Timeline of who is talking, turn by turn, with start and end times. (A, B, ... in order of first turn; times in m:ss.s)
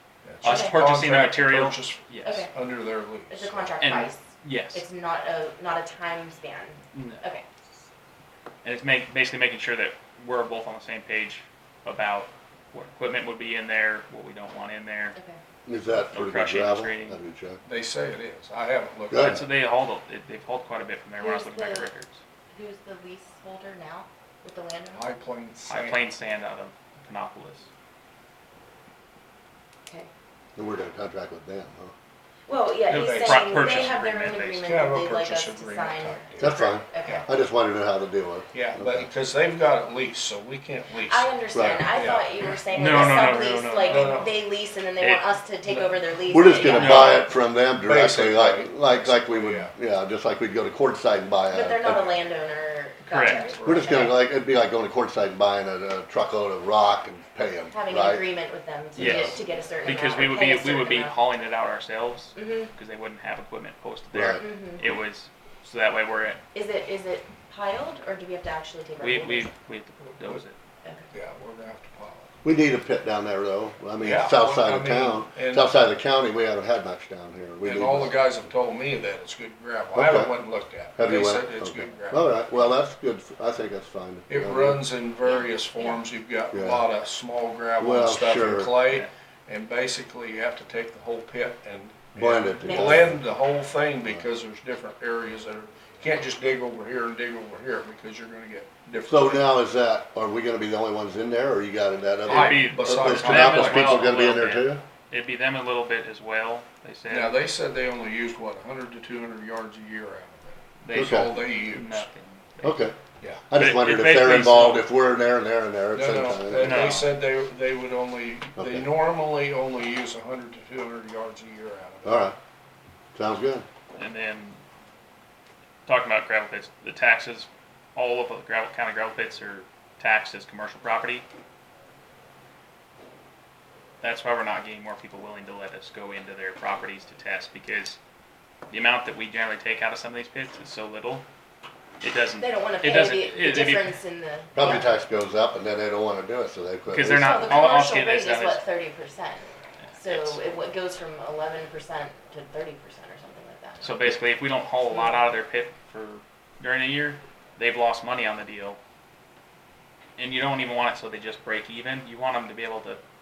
0:00.2-0:03.7 A
0:00.4-0:02.4 B
0:00.4-0:00.8 C
0:02.2-0:02.5 C
0:03.3-0:07.4 C
0:03.8-0:04.8 B
0:06.9-0:07.2 B
0:08.6-0:15.2 B
0:15.6-0:17.6 D
0:16.0-0:17.2 B
0:17.6-0:19.4 A
0:19.1-0:19.4 D
0:19.1-0:22.2 B
0:21.2-0:21.9 C
0:22.5-0:25.1 C
0:24.9-0:26.0 A
0:25.7-0:27.7 B
0:29.8-0:30.1 C
0:30.6-0:31.9 D
0:32.5-0:37.3 C
0:32.9-0:34.6 B
0:32.9-0:33.8 A
0:34.6-0:37.2 A
0:36.4-0:39.1 D
0:38.5-0:42.3 A
0:41.0-0:47.1 C
0:41.5-0:41.9 D
0:42.7-0:44.3 B
0:42.9-0:44.4 A
0:45.0-0:45.3 B
0:45.6-0:49.7 A
0:46.3-0:52.2 D
0:46.7-0:47.3 B
0:51.5-0:54.2 C
0:53.1-0:53.4 B
0:53.2-0:54.1 A
0:53.6-0:58.3 D
0:57.7-1:01.2 C
0:59.0-0:59.4 D
0:59.0-1:06.4 B
1:02.3-1:02.7 C
1:04.1-1:05.0 D
1:04.3-1:04.8 C
1:06.5-1:09.5 C
1:09.0-1:10.6 B
1:10.1-1:10.4 A
1:10.8-1:11.1 C
1:11.1-1:12.4 A
1:12.4-1:18.2 D
1:14.0-1:15.8 A
1:17.6-1:22.4 A
1:19.9-1:20.3 D
1:20.9-1:24.8 D
1:24.3-1:39.4 A
1:25.2-1:26.0 C
1:26.5-1:26.9 D
1:27.8-1:28.8 D
1:32.2-1:33.2 D
1:32.6-1:33.0 C
1:39.1-1:44.8 D
1:42.2-1:44.1 A
1:42.2-1:47.3 B
1:47.1-1:52.0 A
1:50.8-1:52.8 B
1:50.9-1:51.3 D
1:52.6-1:56.9 D
1:53.6-1:54.9 B
1:55.9-2:02.3 A
1:56.6-1:57.2 B
1:58.6-1:58.8 D
2:02.0-2:02.4 D
2:03.1-2:03.6 D
2:04.0-2:04.6 B
2:05.8-2:11.2 B
2:14.0-2:18.0 B
2:18.7-2:21.2 B
2:22.0-2:23.9 B
2:22.4-2:24.9 C
2:24.5-2:27.7 D
2:26.9-2:28.6 B
2:27.1-2:34.0 C
2:29.9-2:30.4 B
2:33.8-2:38.8 B
2:34.9-2:35.2 C
2:40.2-2:43.0 B